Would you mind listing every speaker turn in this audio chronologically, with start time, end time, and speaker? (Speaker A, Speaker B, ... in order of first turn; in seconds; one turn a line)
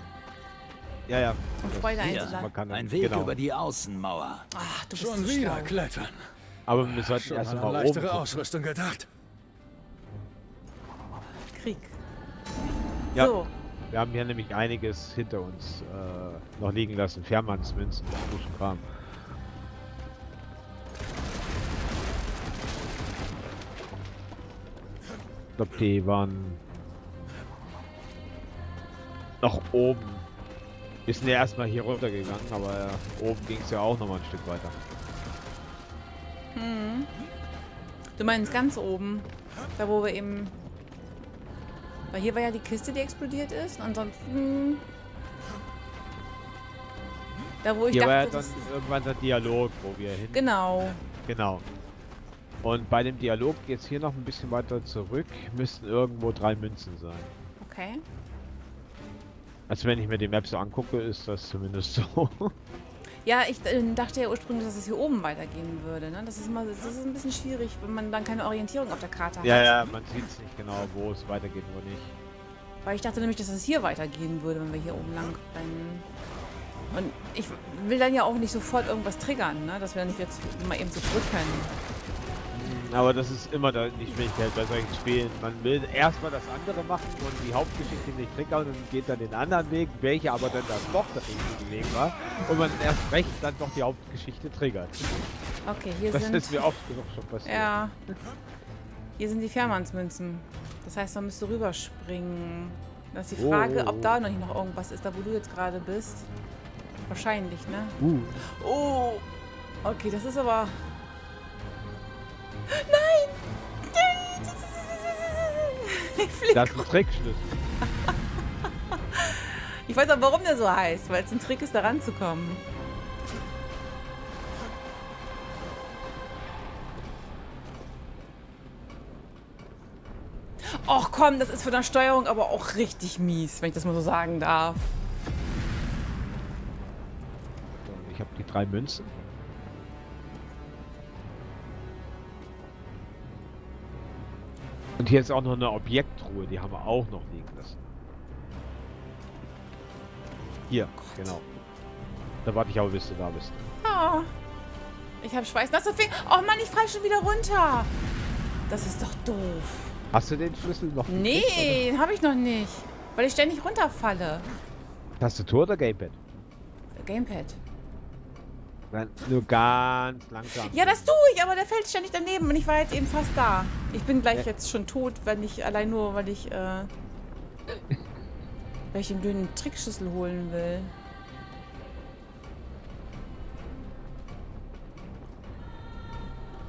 Speaker A: 1.1-3.4
Speaker B: 1.6-2.5
Speaker C: 2.0-4.5
Speaker B: 4.5-5.8
Speaker D: 5.0-6.3
Speaker A: 6.7-8.4
Speaker D: 6.8-9.1
Speaker B: 11.5-12.0
Speaker B: 13.2-13.5
Speaker A: 13.9-18.9
Speaker A: 25.6-26.6
Speaker A: 29.4-30.3
Speaker A: 31.1-34.8
Speaker B: 36.5-37.1
Speaker B: 38.2-40.6
Speaker B: 42.1-44.9
Speaker B: 47.6-48.6
Speaker A: 47.9-50.4
Speaker B: 50.3-51.0
Speaker A: 51.2-51.6
Speaker A: 52.6-57.3
Speaker B: 57.6-58.0
Speaker A: 59.7-62.5
Speaker B: 63.2-69.8
Speaker A: 69.4-72.2
Speaker B: 72.8-76.1
Speaker B: 76.9-81.7
Speaker A: 82.5-95.2
Speaker B: 95.7-96.7
Speaker A: 96.1-97.7
Speaker B: 97.5-98.0
Speaker B: 99.2-106.3
Speaker A: 103.4-104.2
Speaker B: 107.1-109.3
Speaker A: 108.0-108.3
Speaker B: 109.8-110.8
Speaker B: 112.7-116.9
Speaker A: 116.5-117.5
Speaker B: 118.9-122.6
Speaker B: 130.6-134.9
Speaker A: 137.8-139.1
Speaker A: 145.0-147.8
Speaker A: 150.7-151.4
Speaker B: 150.9-151.3
Speaker A: 152.4-153.7
Speaker B: 153.8-154.3
Speaker B: 155.2-157.9
Speaker B: 158.7-160.0
Speaker A: 160.1-161.8
Speaker B: 161.1-164.5
Speaker A: 165.2-166.2
Speaker B: 167.0-167.6
Speaker A: 168.9-171.0
Speaker B: 170.6-176.9
Speaker B: 178.9-180.9